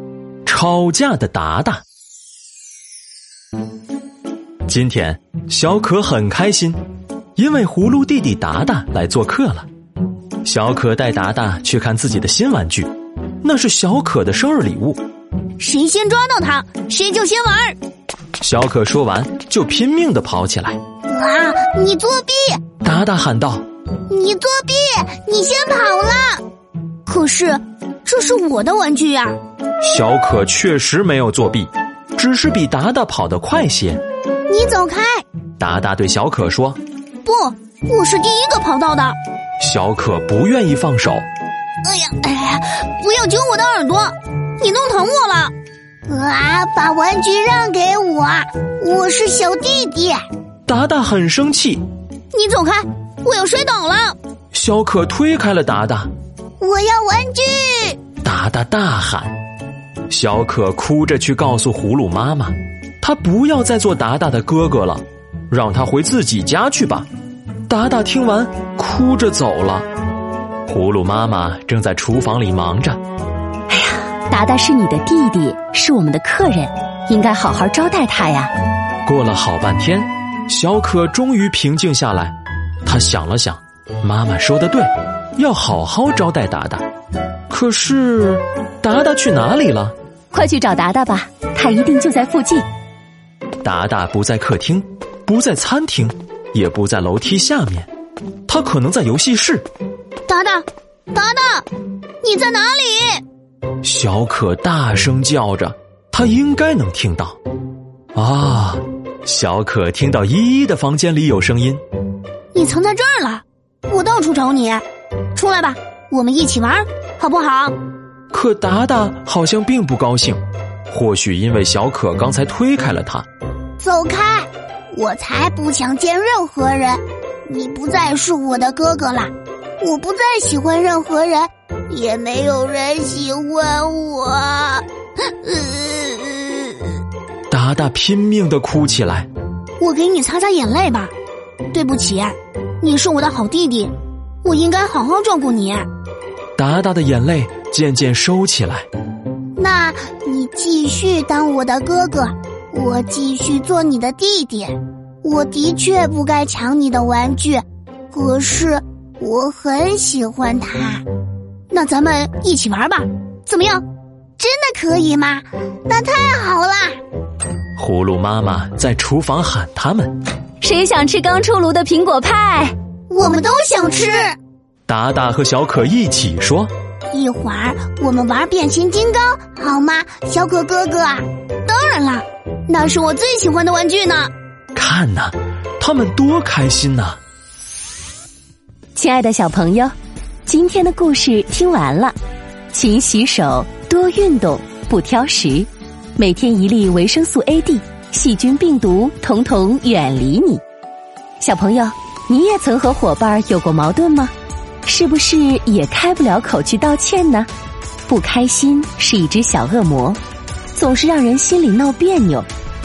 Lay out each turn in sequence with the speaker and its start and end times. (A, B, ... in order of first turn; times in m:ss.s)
0:00.4-0:01.8 A
0:04.6-0:06.8 A
0:07.4-0:09.7 A
0:10.4-0:12.9 A
0:13.4-0:15.0 A
0:15.6-0:17.8 B
0:18.4-0:20.8 A
0:21.1-0:22.6 B
0:22.8-0:23.6 A
0:24.1-0:26.4 B
0:27.0-0:29.4 B
0:29.8-0:34.0 A
0:34.5-0:35.2 B
0:35.6-0:36.8 A
0:37.2-0:39.2 B
0:39.6-0:41.2 A
0:41.8-0:45.5 B
0:46.1-0:50.2 B
0:50.7-0:51.8 A
0:52.3-0:54.2 B
0:54.5-0:56.1 A
0:56.6-0:58.0 B
0:58.2-0:59.4 A
1:00.1-1:07.1 A
1:07.7-1:09.9 A
1:10.7-1:13.0 A
1:13.7-1:18.5 C
1:19.0-1:22.3 A
1:22.8-1:26.8 A
1:27.5-1:29.9 A
1:30.3-1:32.6 C
1:33.6-1:37.9 A
1:38.5-1:39.6 A
1:40.3-1:41.7 B
1:42.2-1:43.2 B
1:43.8-1:47.4 A
1:48.1-1:51.8 A
1:52.5-1:54.8 B
1:55.3-1:57.7 B
1:58.3-2:03.2 A
2:03.8-2:16.9 B
2:17.5-2:19.3 A
2:19.8-2:21.1 B
2:21.7-2:25.9 B
2:26.6-2:28.9 A
2:29.6-2:41.0 B
2:41.7-2:43.8 B
2:44.4-2:47.0 B
2:47.8-2:50.1 A
2:50.6-2:52.7 C
2:53.1-2:54.3 B
2:54.9-2:56.7 A
2:57.1-3:04.3 B
3:04.7-3:07.2 A
3:09.0-3:09.9 C
3:10.5-3:12.1 C
3:12.7-3:20.6 C
3:21.4-3:24.3 C
3:24.8-3:27.5 C
3:28.0-3:30.2 C
3:30.7-3:32.5 C